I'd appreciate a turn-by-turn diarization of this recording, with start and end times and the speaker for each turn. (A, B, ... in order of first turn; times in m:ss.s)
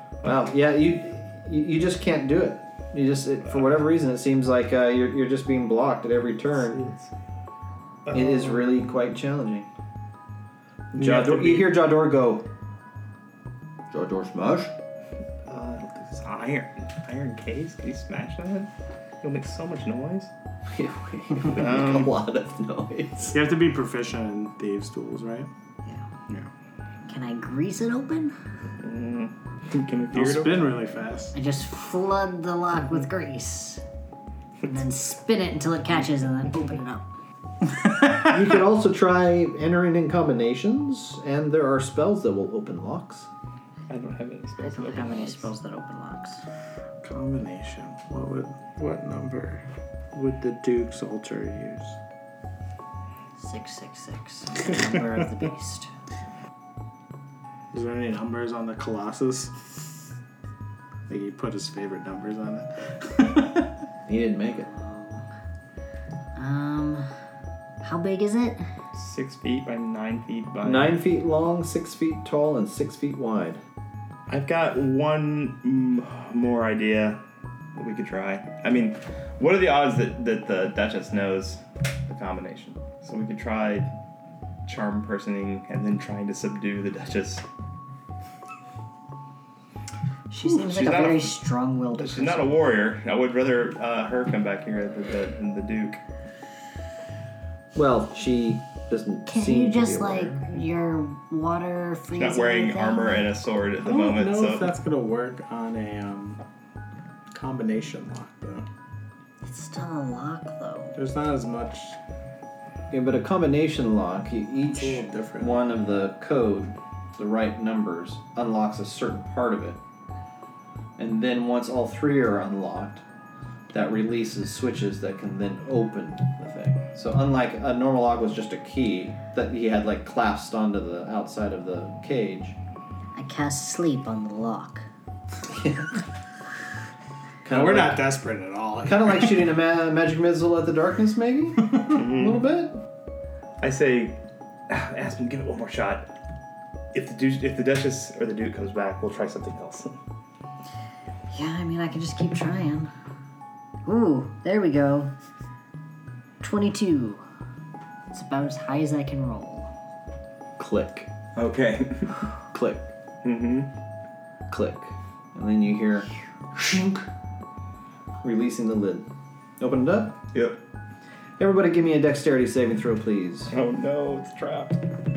0:00.2-0:06.8 A
0:06.7-0:07.1 B
0:08.0-0:08.7 B
0:08.1-0:09.7 A
0:11.0-0:12.5 A
0:11.0-0:11.6 C
0:13.9-0:14.7 A
0:15.5-0:18.7 B
0:19.2-0:20.3 B
0:20.7-0:23.4 A
0:21.4-0:22.1 B
0:23.3-0:25.5 C
0:27.1-0:28.4 D
0:28.8-0:30.7 B
0:30.1-0:31.3 C
0:31.3-0:33.8 D
0:34.6-0:37.0 D
0:38.2-0:43.3 A
0:43.9-0:45.4 B
0:44.6-0:46.4 D
0:47.0-0:52.0 C
0:53.4-0:55.9 D
0:57.7-0:59.9 C
1:01.1-1:03.7 C
1:04.1-1:04.7 A
1:04.5-1:05.2 D
1:06.4-1:07.1 D
1:07.8-1:08.6 D
1:08.9-1:11.0 B
1:10.6-1:13.6 A
1:14.3-1:17.2 B
1:17.8-1:23.9 B
1:24.6-1:27.4 B
1:30.3-1:32.5 D
1:30.4-1:31.4 B
1:31.9-1:36.0 B
1:37.7-1:40.4 A
1:39.3-1:43.3 D
1:42.1-1:44.7 B
1:43.8-1:46.4 C
1:47.3-1:48.6 C
1:49.4-1:51.0 D
1:50.9-1:52.0 C
1:52.9-1:59.8 A
1:54.7-1:55.6 C
2:01.0-2:03.0 A
2:03.7-2:12.6 A
2:13.1-2:14.9 D
2:15.5-2:15.9 A
2:17.4-2:18.1 A
2:17.5-2:19.5 C
2:18.8-2:22.8 A
2:21.9-2:22.4 B
2:23.6-2:24.2 B
2:24.7-2:26.1 B
2:26.9-2:29.9 B
2:31.3-2:32.9 D
2:33.9-2:35.1 D
2:36.4-2:37.2 D
2:38.1-2:39.7 D
2:40.6-2:41.1 A
2:41.4-2:42.2 B
2:42.5-2:42.9 A
2:43.2-2:43.7 B
2:44.5-2:47.0 A
2:48.2-2:49.1 A
2:49.6-2:50.2 A
2:50.3-2:50.6 B
2:51.4-2:53.5 A
2:53.5-2:54.8 B